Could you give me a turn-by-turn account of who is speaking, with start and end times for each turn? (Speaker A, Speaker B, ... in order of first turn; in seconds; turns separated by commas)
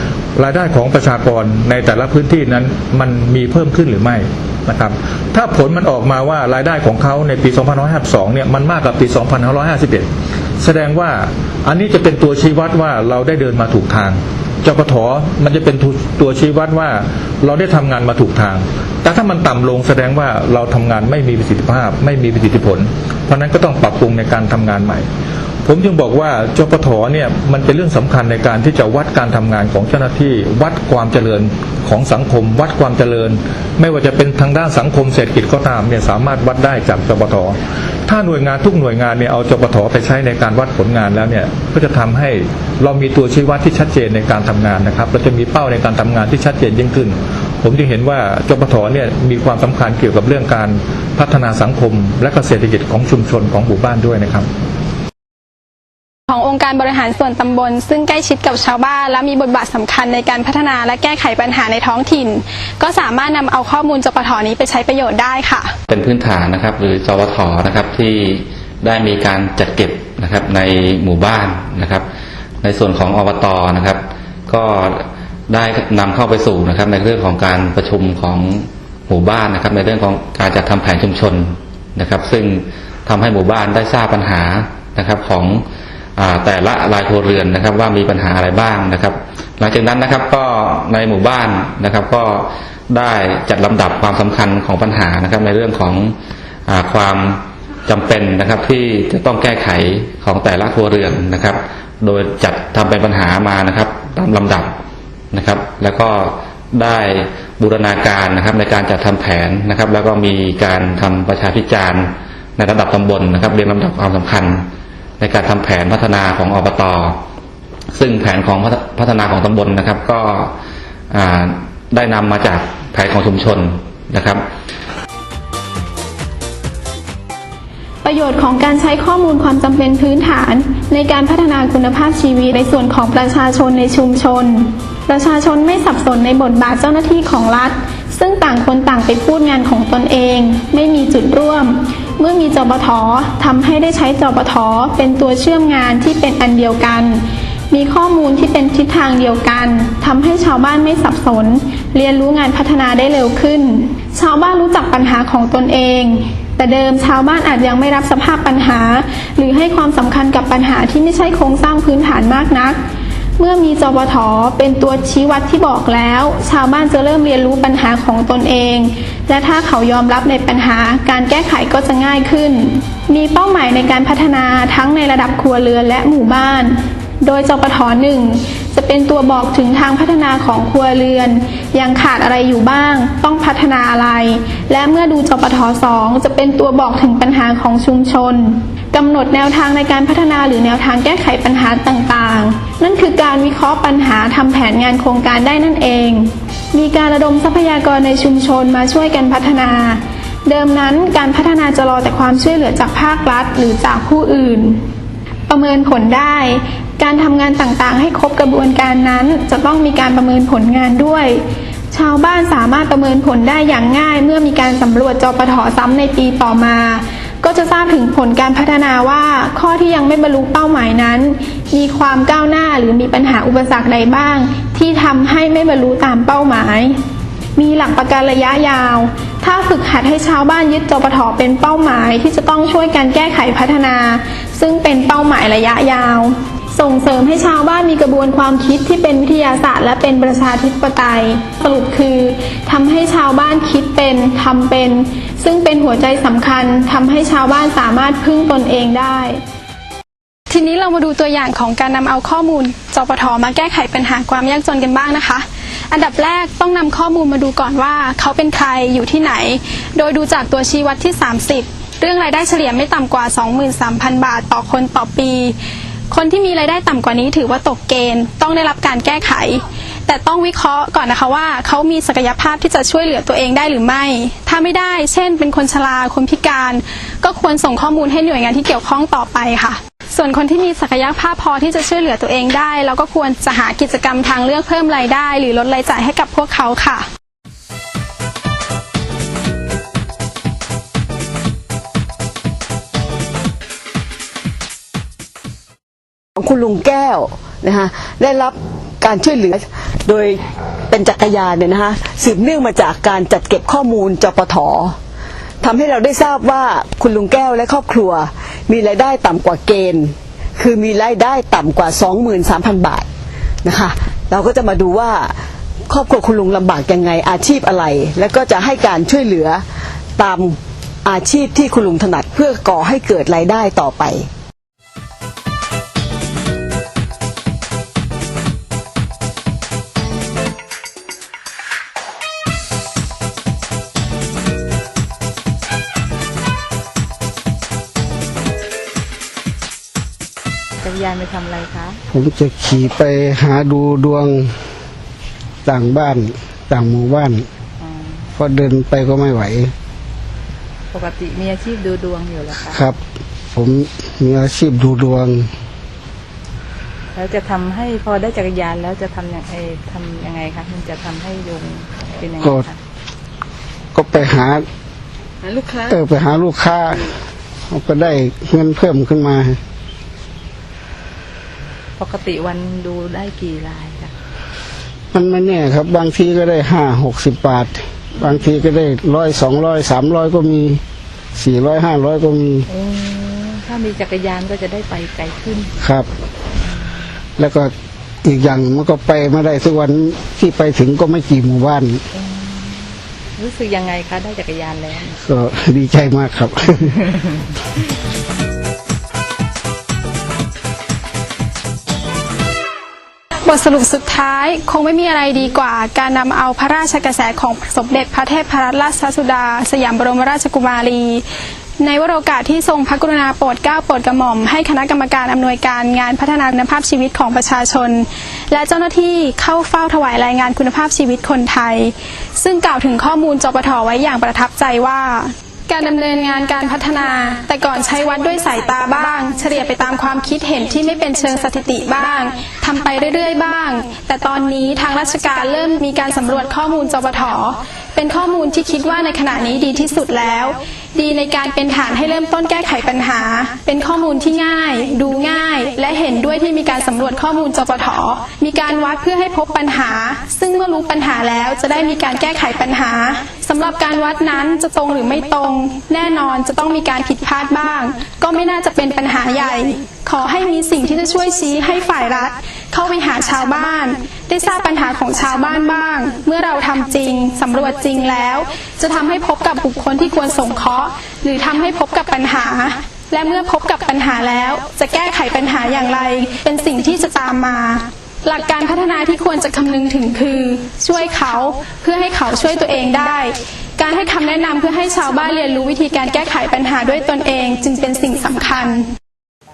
Speaker A: 0.4-10.1, Speaker A: 10.6-25.1, Speaker A: 25.7-54.5, Speaker B: 56.3-65.7, Speaker C: 65.9-72.0, Speaker C: 72.6-85.6, Speaker C: 86.2-96.2, Speaker C: 96.7-104.7, Speaker C: 105.3-114.7, Speaker C: 115.2-117.2, Speaker C: 117.9-120.5, Speaker C: 121.1-124.4, Speaker B: 128.0-162.8, Speaker B: 163.4-204.8, Speaker B: 205.5-227.0, Speaker B: 227.6-249.4, Speaker B: 250.5-265.6, Speaker B: 266.1-287.1, Speaker D: 296.4-305.0, Speaker D: 305.6-313.1, Speaker D: 313.6-315.4, Speaker D: 315.9-319.6, Speaker D: 320.2-324.3, Speaker E: 340.8-342.0, Speaker F: 342.1-344.5, Speaker F: 345.6-347.5, Speaker E: 347.8-348.2, Speaker F: 348.4-349.7, Speaker E: 350.9-352.9, Speaker F: 352.6-353.0, Speaker F: 353.6-355.5, Speaker E: 357.2-362.8, Speaker F: 363.9-364.6, Speaker F: 365.8-367.1, Speaker F: 367.7-369.6, Speaker E: 372.0-374.1, Speaker F: 375.1-380.8, Speaker F: 381.4-382.6, Speaker E: 382.7-385.7, Speaker F: 385.8-386.1, Speaker F: 387.4-387.7, Speaker F: 388.2-392.0, Speaker E: 392.2-392.8, Speaker E: 393.4-395.1, Speaker F: 395.1-397.1, Speaker B: 403.4-411.2, Speaker B: 411.8-488.9